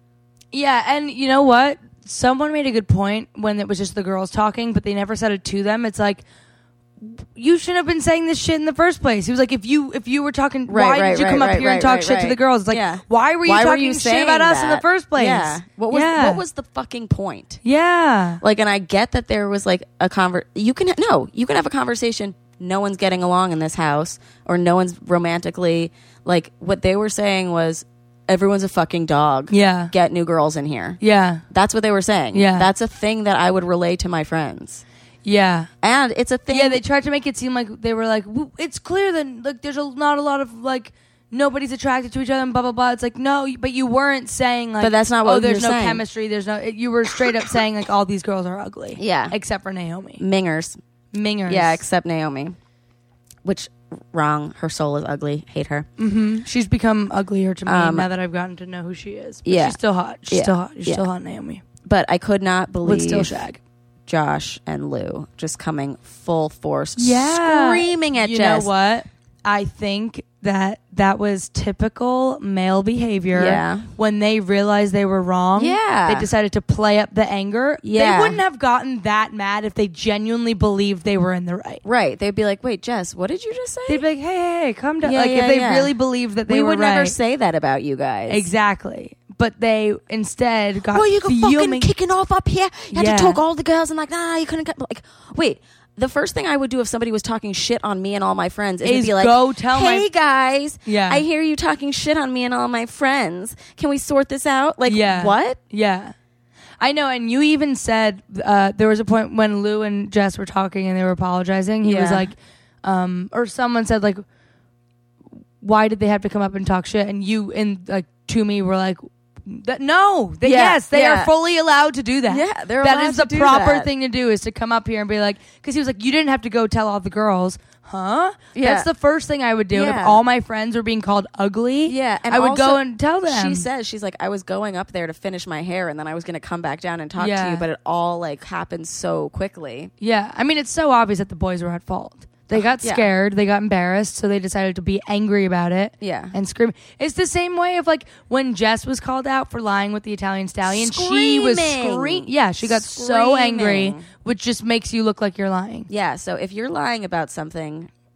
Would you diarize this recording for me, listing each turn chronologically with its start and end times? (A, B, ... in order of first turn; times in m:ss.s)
0:00.5-0:06.2 A
0:07.0-0:16.4 A
0:10.7-0:17.6 B
0:17.6-0:18.4 A
0:18.4-0:31.0 B
0:29.5-0:29.9 A
0:31.0-0:31.4 A
0:31.5-0:34.8 B
0:32.3-0:32.7 A
0:35.2-0:35.7 A
0:35.8-0:36.8 B
0:36.5-0:50.2 A
0:44.8-0:46.0 B
0:49.0-0:49.4 B
0:50.2-0:50.8 B
0:51.1-0:51.8 A
0:51.5-0:52.6 B
0:53.4-0:55.9 B
0:56.0-1:01.6 A
0:57.7-0:58.1 B
0:59.4-0:59.8 B
1:00.3-1:01.0 B
1:01.8-1:03.4 B
1:02.8-1:03.6 A
1:04.1-1:08.7 B
1:07.0-1:21.8 A
1:13.3-1:13.9 B
1:15.6-1:16.3 B
1:17.8-1:18.4 B
1:21.8-1:24.0 B
1:23.9-1:27.2 A
1:25.0-1:26.0 B
1:26.5-1:28.5 B
1:28.3-1:31.9 A
1:30.9-1:45.6 B
1:32.9-1:33.4 A
1:38.8-1:40.1 A
1:40.8-1:41.2 A
1:44.9-1:46.2 A
1:46.8-1:54.2 A
1:51.8-1:52.3 B
1:55.6-2:13.7 A
2:00.4-2:01.3 B
2:02.3-2:03.9 B
2:08.6-2:08.9 B
2:09.7-2:10.2 B
2:11.9-2:19.9 B
2:17.2-2:17.6 A
2:20.0-2:35.9 A
2:22.5-2:23.1 B
2:26.0-2:26.4 B
2:30.7-2:34.0 B
2:35.9-2:37.9 B